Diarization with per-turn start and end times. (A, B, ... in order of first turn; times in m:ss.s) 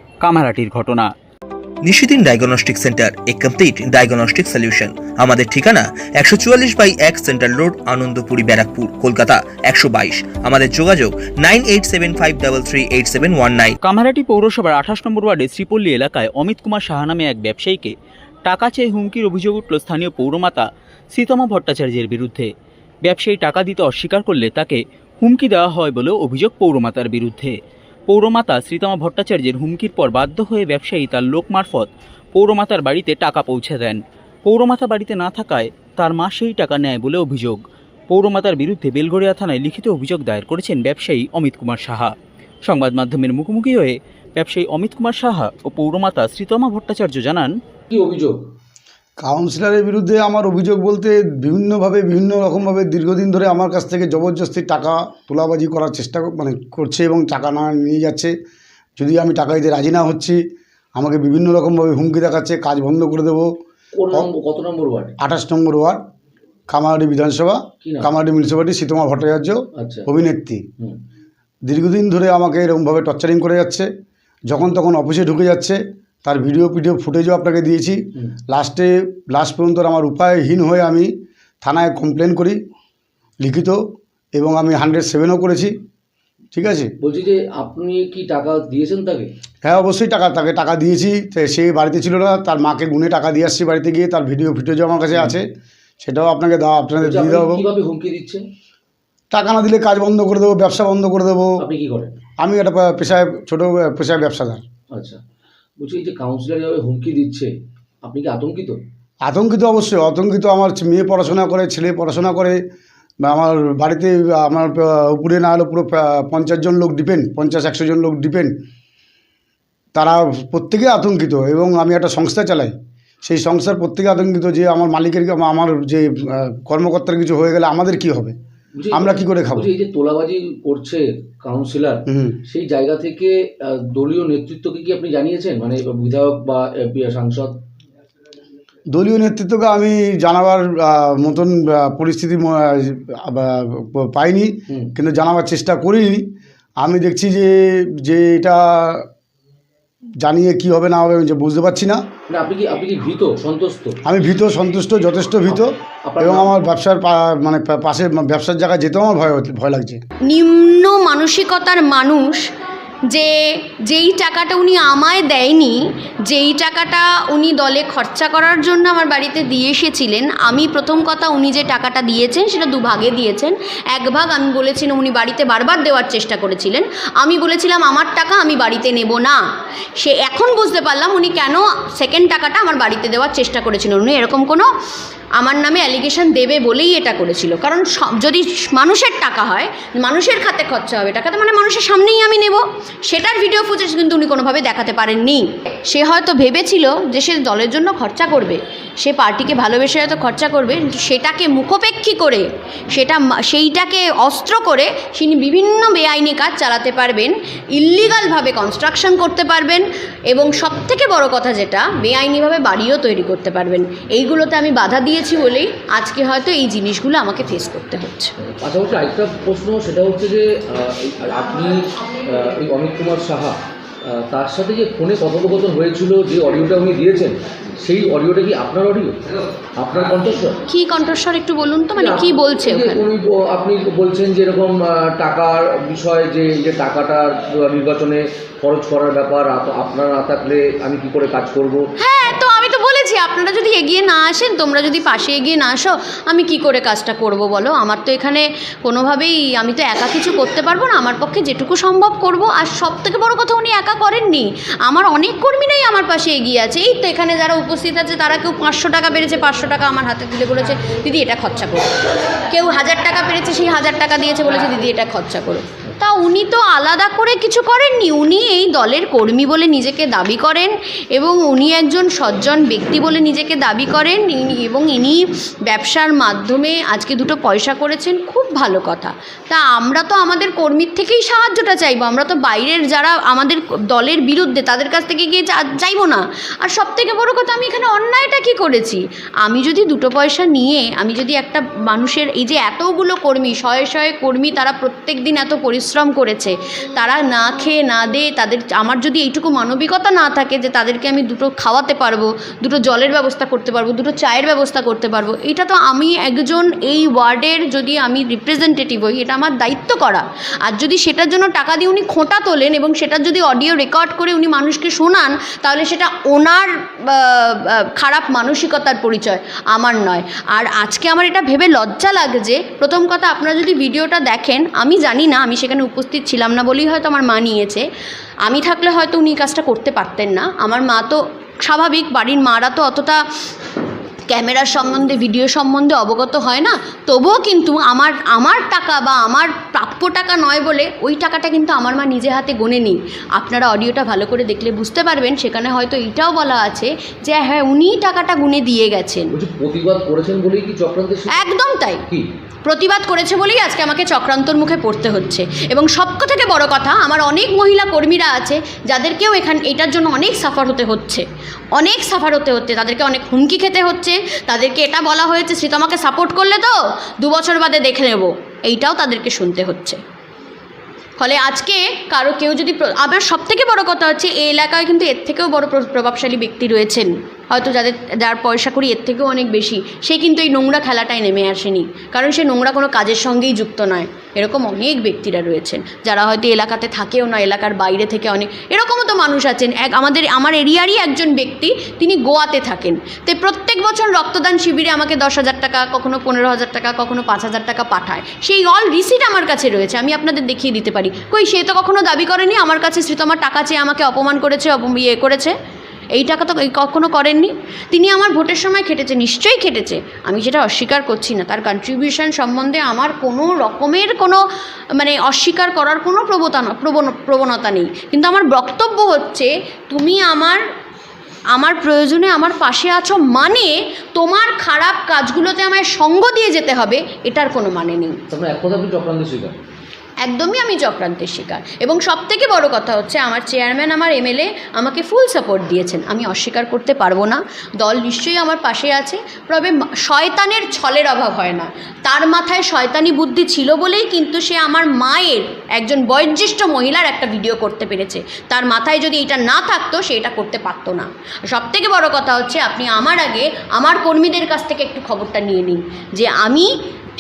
0:00.2-0:01.1 A
0:01.8-0:13.8 B
0:13.8-0:17.9 A
0:18.4-0:22.5 A
0:23.0-0:27.5 A
0:28.1-0:37.6 A
0:38.1-0:42.1 A
0:42.6-0:47.5 A
0:47.9-0:48.4 C
0:49.2-0:58.3 D
0:59.0-1:00.4 D
1:01.0-1:03.5 D
1:03.9-1:05.1 C
1:05.2-1:06.0 D
1:06.7-1:10.6 D
1:07.8-1:08.1 C
1:09.8-1:10.1 C
1:11.7-1:13.9 D
1:14.5-1:21.1 D
1:21.6-1:22.6 D
1:23.4-1:23.8 D
1:24.3-1:25.7 D
1:26.5-1:26.9 D
1:27.0-1:29.3 C
1:29.6-1:35.4 D
1:36.0-1:37.6 D
1:37.0-1:38.4 C
1:39.3-1:41.6 D
1:41.6-1:42.1 C
1:42.4-1:44.6 D
1:44.9-1:45.2 C
1:45.8-1:48.8 C
1:49.2-1:52.6 D
1:53.2-1:58.5 D
1:59.9-2:08.3 D
2:08.7-2:17.6 C
2:08.9-2:09.7 D
2:12.1-2:12.4 D
2:18.9-2:26.2 D
2:26.8-2:29.0 D
2:30.2-2:32.0 D
2:32.3-2:34.0 C
2:34.0-2:40.0 D
2:35.5-2:36.6 C
2:40.3-2:42.4 E
2:43.1-2:59.4 E
3:00.0-3:04.7 E
3:05.4-3:38.3 E
3:38.6-3:49.2 C
3:49.8-3:50.6 C
3:50.7-3:53.0 E
3:52.0-4:01.8 C
4:02.0-4:21.9 E
4:22.5-5:27.8 E
5:28.4-5:33.2 E
5:34.3-5:49.3 E
5:49.3-5:51.5 C
5:51.3-5:52.0 E
5:52.6-6:01.2 E
6:01.8-6:10.0 E
6:11.2-6:45.5 E
6:46.2-6:54.4 E
6:55.0-7:00.6 E
7:01.5-7:08.2 E
7:08.3-7:09.6 C
7:10.2-7:36.7 E